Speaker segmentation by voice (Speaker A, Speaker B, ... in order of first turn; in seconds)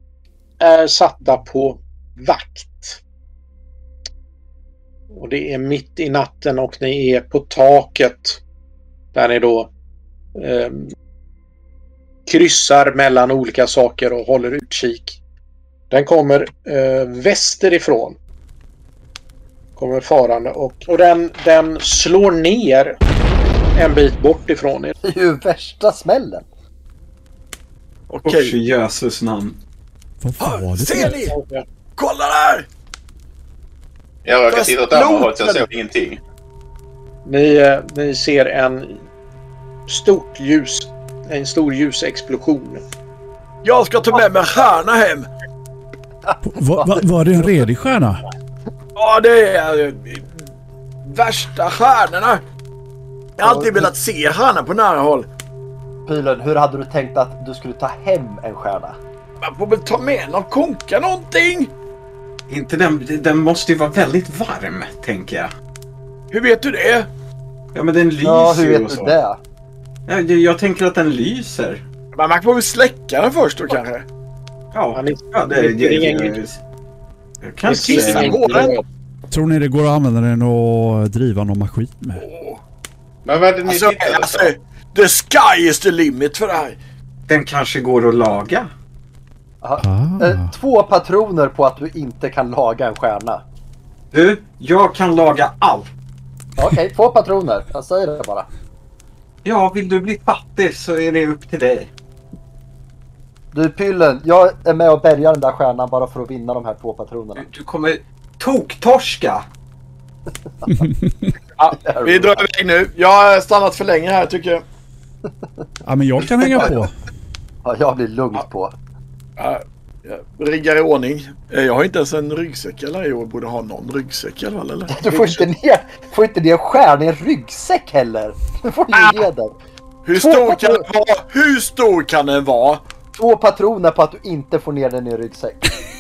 Speaker A: 0.6-3.0, 5.1-8.4, 9.1-9.7, 10.3-10.9, 12.3-15.2, 15.9-18.2, 19.8-23.0, 23.8-24.9, 30.9-31.6, 37.2-39.0, 39.9-42.8, 75.0-76.4, 77.7-78.8
Speaker B: 25.0-26.5, 46.3-47.0, 53.4-53.9, 56.1-59.0, 68.2-69.4, 89.6-93.4, 96.6-98.5, 103.5-107.5, 111.8-112.4, 117.6-118.7, 124.9-129.6, 130.2-130.8, 133.2-135.8
Speaker C: 28.1-28.6, 30.4-31.4, 32.0-32.7, 34.5-35.7, 43.6-45.3, 49.0-50.4, 51.0-52.4, 53.4-55.3, 59.4-61.7, 66.3-67.1, 72.1-74.0, 77.8-78.8, 82.2-82.6, 83.6-86.8, 111.6-114.6, 119.4-125.5, 130.0-132.8
Speaker D: 28.2-29.6, 62.5-65.5, 67.7-69.1, 70.1-71.8, 74.7-76.6, 77.4-78.8, 83.7-84.0, 87.3-88.7, 94.1-95.9, 99.4-101.9, 107.4-109.5
Speaker E: 30.2-31.3, 46.4-48.2, 79.3-82.2, 89.8-90.5, 110.7-111.3, 115.8-116.9
Speaker F: 34.2-36.2, 83.3-84.5